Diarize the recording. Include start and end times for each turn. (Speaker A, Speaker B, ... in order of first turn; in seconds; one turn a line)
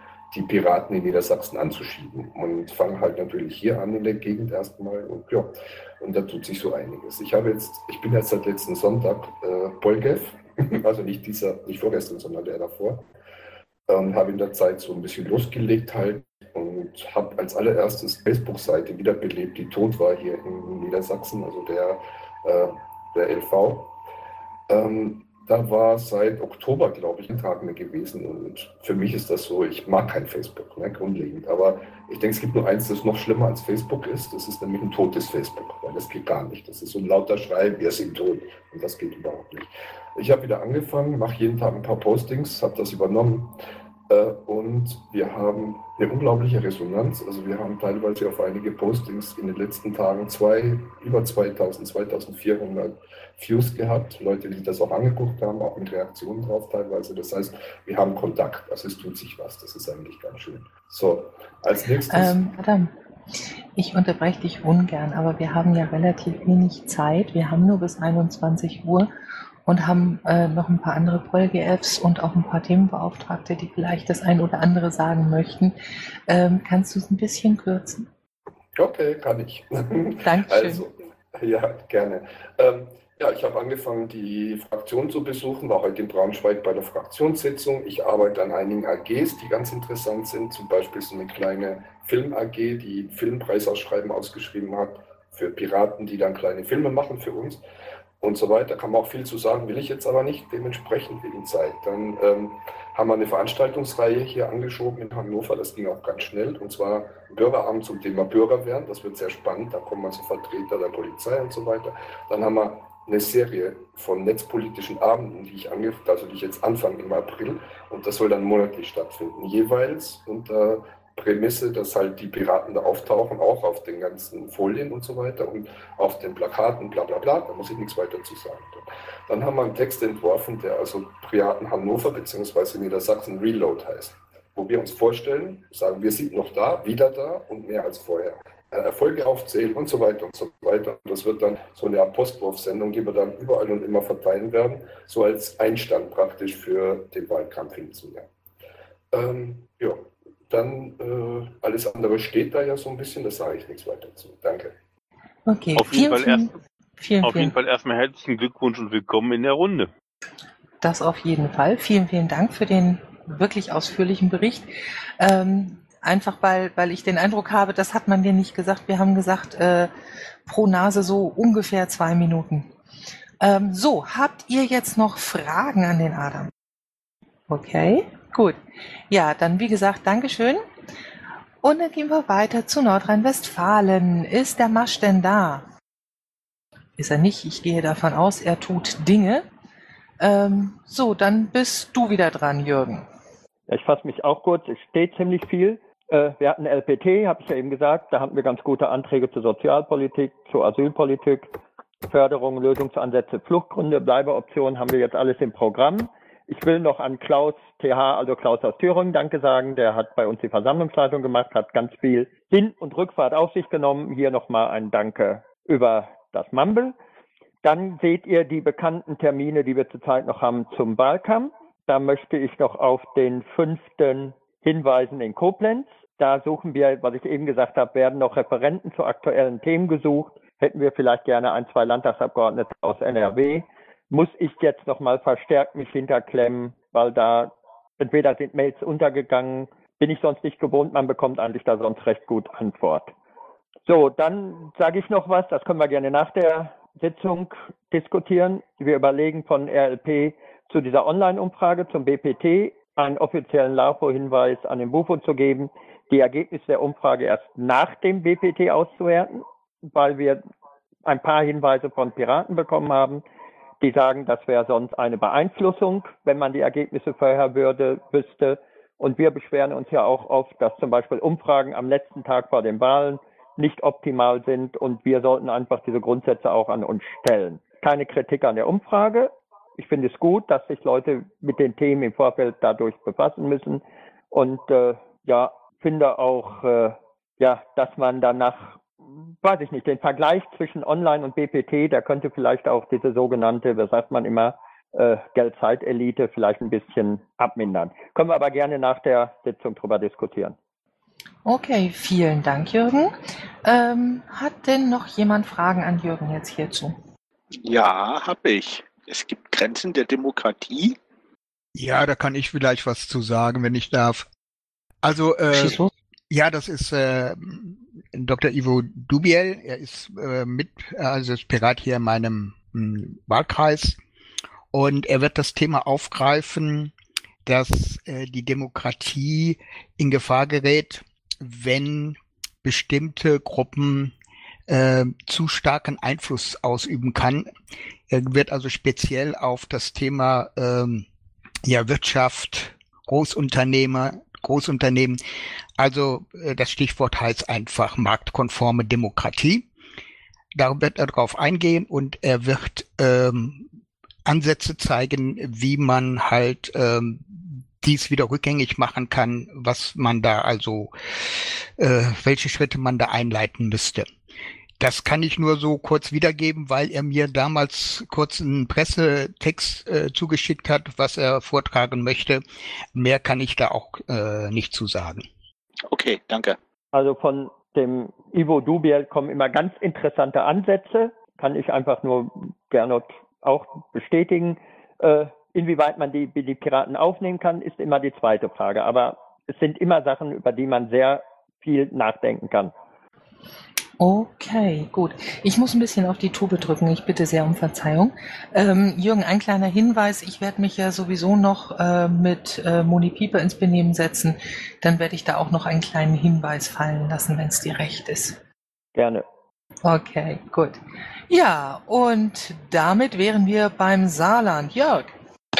Speaker A: 0.3-13.0
Speaker A: 13.9-23.9
Speaker A: 24.7-43.5
Speaker A: 44.1-62.4
Speaker B: 62.1-62.9
Speaker B: 63.8-69.1
Speaker B: 69.7-75.8
Speaker B: 76.3-78.1
Speaker A: 78.8-97.6
Speaker B: 80.2-80.8
Speaker A: 98.2-148.3
Speaker A: 149.1-154.8
Speaker B: 155.5-157.6
Speaker C: 155.8-156.5
Speaker C: 157.2-159.9
Speaker B: 160.8-169.9
Speaker B: 170.5-172.7
Speaker B: 173.4-176.5
Speaker B: 177.5-178.6
Speaker B: 179.1-180.7
Speaker B: 181.6-185.7
Speaker B: 187.0-189.5
Speaker B: 190.2-193.1
Speaker D: 193.7-201.5
Speaker D: 202.1-216.9
Speaker D: 217.6-243.1
Speaker D: 243.9-260.4
Speaker D: 261.1-263.2
Speaker D: 263.8-288.8
Speaker D: 289.4-300.6
Speaker B: 301.4-307.0
Speaker E: 307.6-311.0
Speaker F: 311.8-314.3
Speaker F: 315.0-324.0
Speaker B: 315.5-315.9
Speaker F: 324.7-326.9
Speaker F: 327.4-334.1
Speaker F: 334.7-337.5
Speaker F: 338.1-341.1
Speaker F: 341.6-345.2
Speaker F: 345.8-349.7
Speaker F: 350.6-353.7
Speaker F: 354.3-360.9
Speaker F: 361.8-364.1
Speaker F: 364.8-372.4
Speaker F: 372.9-375.3
Speaker E: 375.9-376.6
Speaker D: 376.9-392.7
Speaker B: 394.0-408.4
Speaker D: 409.0-409.2
Speaker B: 409.8-415.1